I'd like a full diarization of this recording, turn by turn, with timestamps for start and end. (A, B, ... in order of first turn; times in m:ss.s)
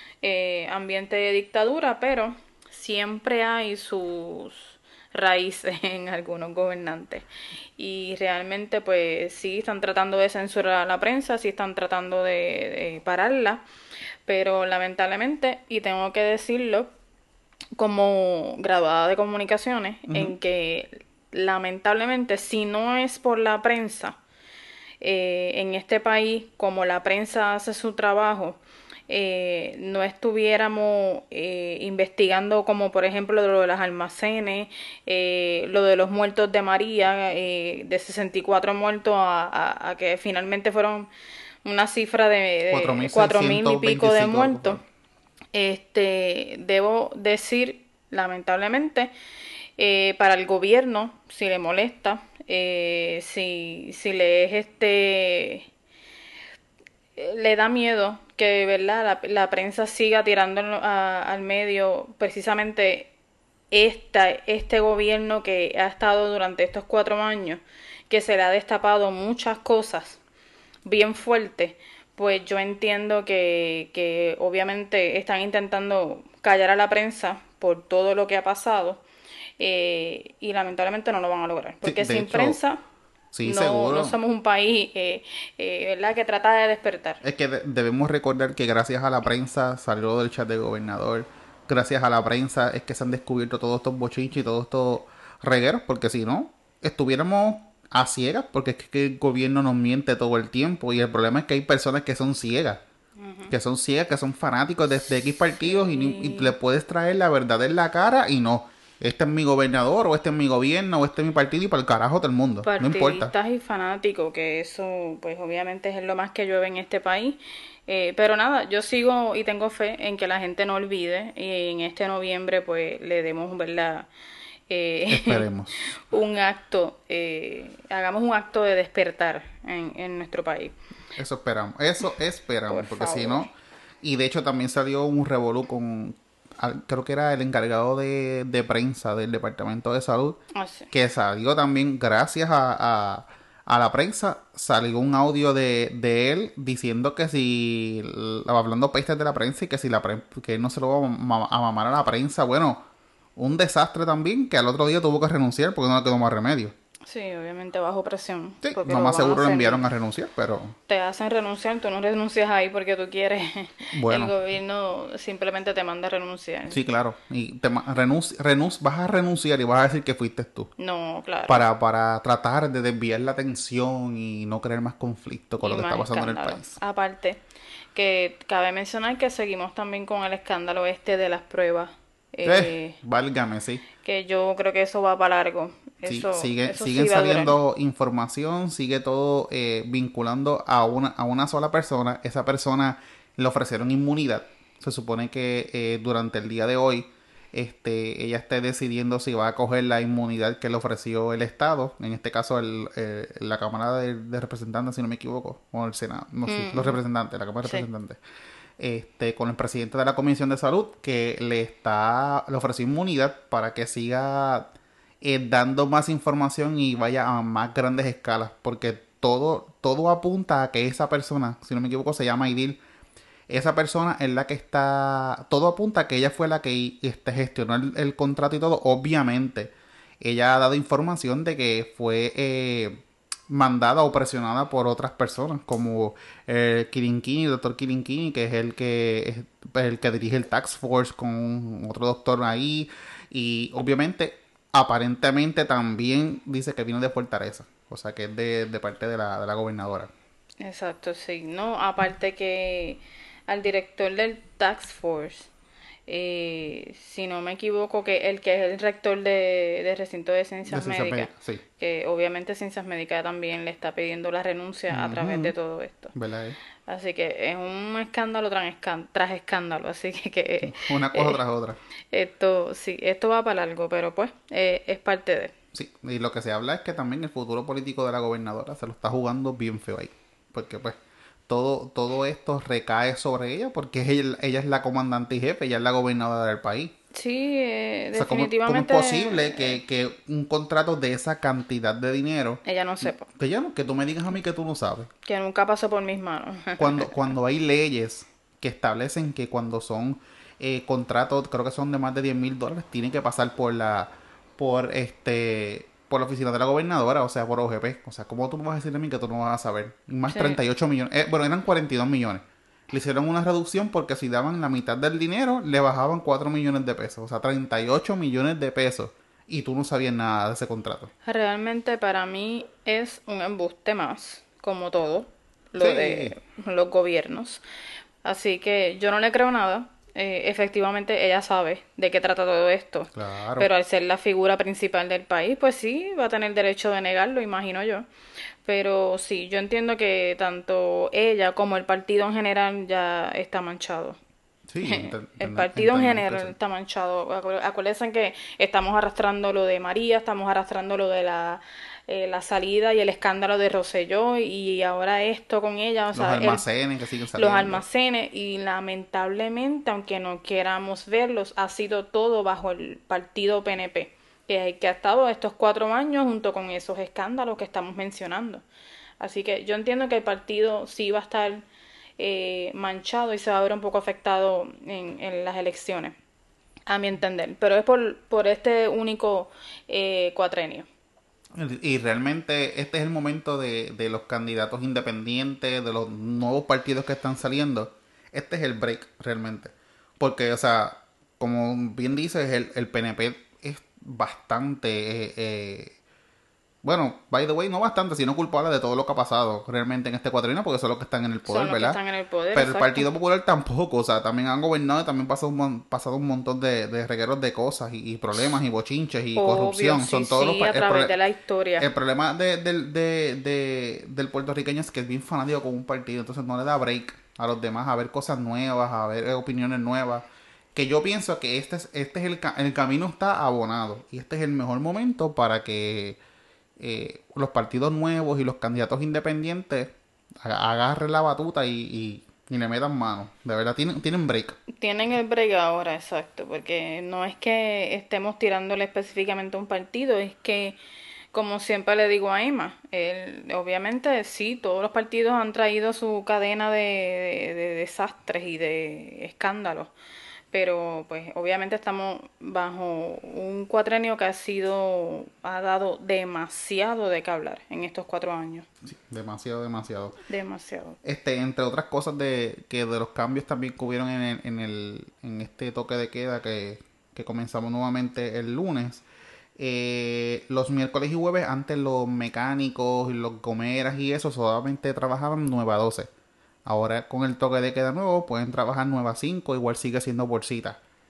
0:00.2-0:07.2 A
0:07.8-0:13.6 A
0:14.2-0:16.9 A
0:17.8-0:24.2 A
0:20.1-0:20.3 B
0:25.0-0:41.1 A
0:41.6-0:44.8 A
0:42.7-0:44.8 B
0:45.5-0:49.1 A
0:49.8-0:55.7 A
0:57.2-1:03.1 A
1:03.7-1:10.2 A
1:10.8-1:19.0 A
1:19.6-1:22.8 A
1:21.8-1:22.6 B
1:23.3-1:24.2 B
1:23.4-1:27.2 A
1:27.2-1:42.8 B
1:43.2-1:43.5 A
1:43.5-1:53.3 B
1:45.6-1:46.5 A
1:52.6-2:04.1 A
2:04.7-2:10.8 A
2:05.1-2:05.9 B
2:11.2-2:13.5 B
2:12.7-2:13.5 A
2:14.0-2:20.4 B
2:20.5-2:20.9 A
2:20.9-2:32.8 B
2:33.4-2:36.7 B
2:37.0-2:39.9 A
2:38.6-2:40.7 B
2:40.9-2:46.8 A
2:43.9-2:44.3 B
2:46.7-2:50.7 B
2:50.8-2:51.6 A
2:51.5-2:56.8 B
2:55.6-2:57.4 A
2:57.9-3:03.0 A
3:02.4-3:03.8 B
3:04.0-3:07.6 A
3:06.0-3:28.2 B
3:26.4-3:27.0 A
3:27.6-3:27.9 A
3:28.8-3:42.8 B
3:43.5-4:10.1 B
4:10.6-4:15.5 A
4:16.1-4:26.1 A
4:20.7-4:21.6 B
4:24.9-4:25.5 B
4:26.1-4:26.6 B
4:26.9-4:31.4 A
4:30.6-4:31.8 B
4:32.1-4:35.5 A
4:35.7-4:41.0 B
4:41.5-4:46.9 B
4:47.1-4:49.8 A
4:48.1-4:55.1 B
4:52.6-4:53.3 A
4:55.2-4:57.3 A
4:56.8-5:21.1 B
5:10.3-5:10.6 A
5:21.2-5:27.6 A
5:25.8-5:26.3 B
5:28.2-5:38.1 A
5:33.1-5:33.7 B
5:38.6-5:44.2 A
5:44.7-5:46.5 B
5:44.8-5:56.6 A
5:56.1-5:57.8 B
5:57.3-6:08.6 A
6:09.2-6:11.6 A
6:12.2-6:16.1 A
6:16.9-6:20.8 A
6:21.5-6:36.0 B
6:36.8-6:42.0 B
6:41.5-6:43.1 A
6:42.5-6:51.1 B
6:49.4-6:51.9 A
6:51.8-7:06.2 B
7:06.8-7:14.6 B
7:14.7-7:20.8 A
7:21.3-7:29.9 A
7:30.5-7:38.6 A
7:38.8-7:40.2 B
7:40.3-7:41.0 A
7:41.0-7:49.0 B
7:49.6-7:56.1 B
7:56.6-8:00.8 B